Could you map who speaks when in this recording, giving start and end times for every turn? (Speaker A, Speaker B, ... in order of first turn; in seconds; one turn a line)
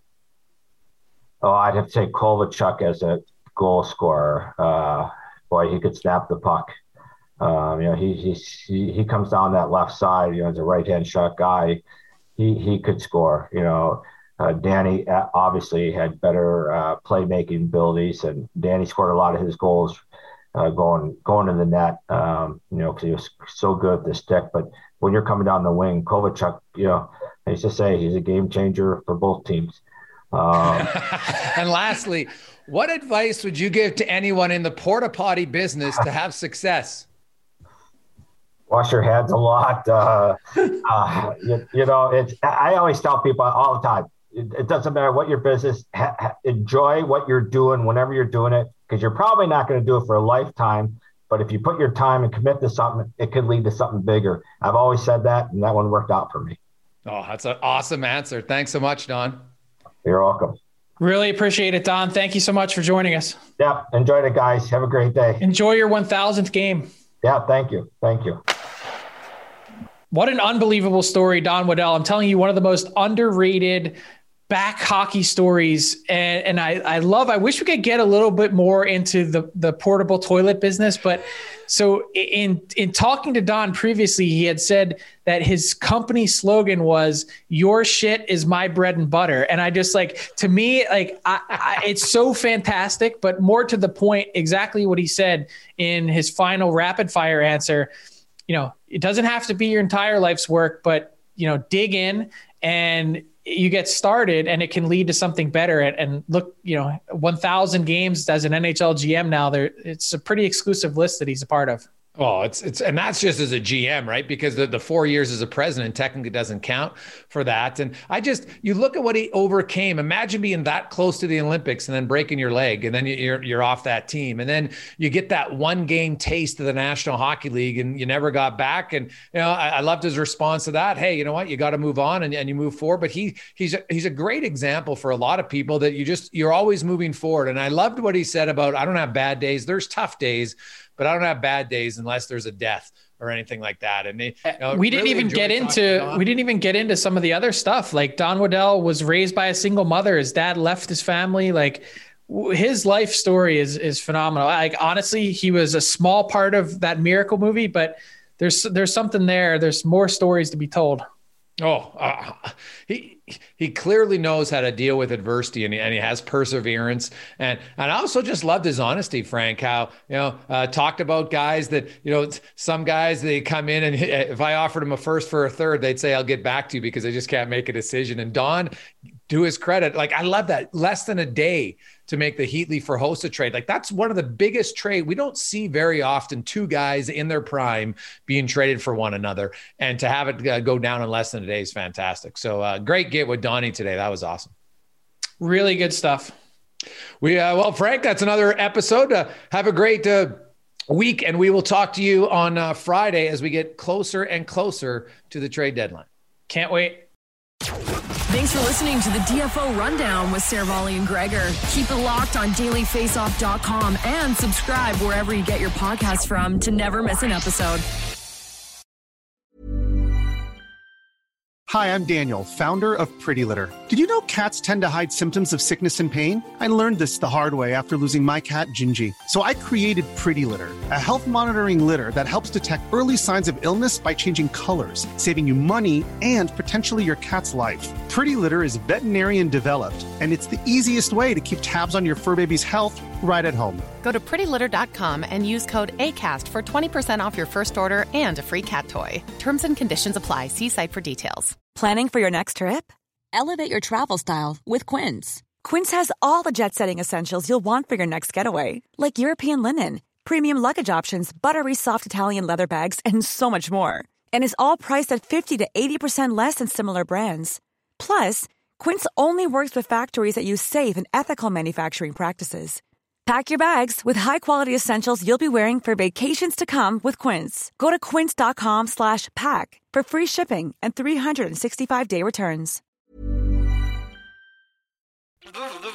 Speaker A: 1.4-6.7
Speaker A: 7.4-11.8
Speaker A: 12.4-20.0
Speaker A: 20.5-30.9
Speaker B: 30.7-37.1
Speaker A: 38.7-56.6
Speaker B: 57.0-59.4
Speaker A: 60.0-60.6
Speaker C: 61.0-63.4
Speaker A: 63.6-65.4
Speaker C: 65.4-66.9
Speaker A: 67.2-68.4
Speaker C: 70.1-74.0
Speaker C: 74.5-97.9
Speaker C: 98.5-111.8
Speaker B: 112.2-146.2
Speaker C: 144.5-161.0
Speaker B: 161.6-178.7
Speaker B: 179.3-194.5
Speaker C: 195.4-196.3
Speaker B: 197.2-206.1
Speaker C: 206.5-207.1
Speaker D: 208.3-217.8
Speaker E: 221.7-243.9
Speaker F: 244.0-251.6
Speaker G: 251.7-282.8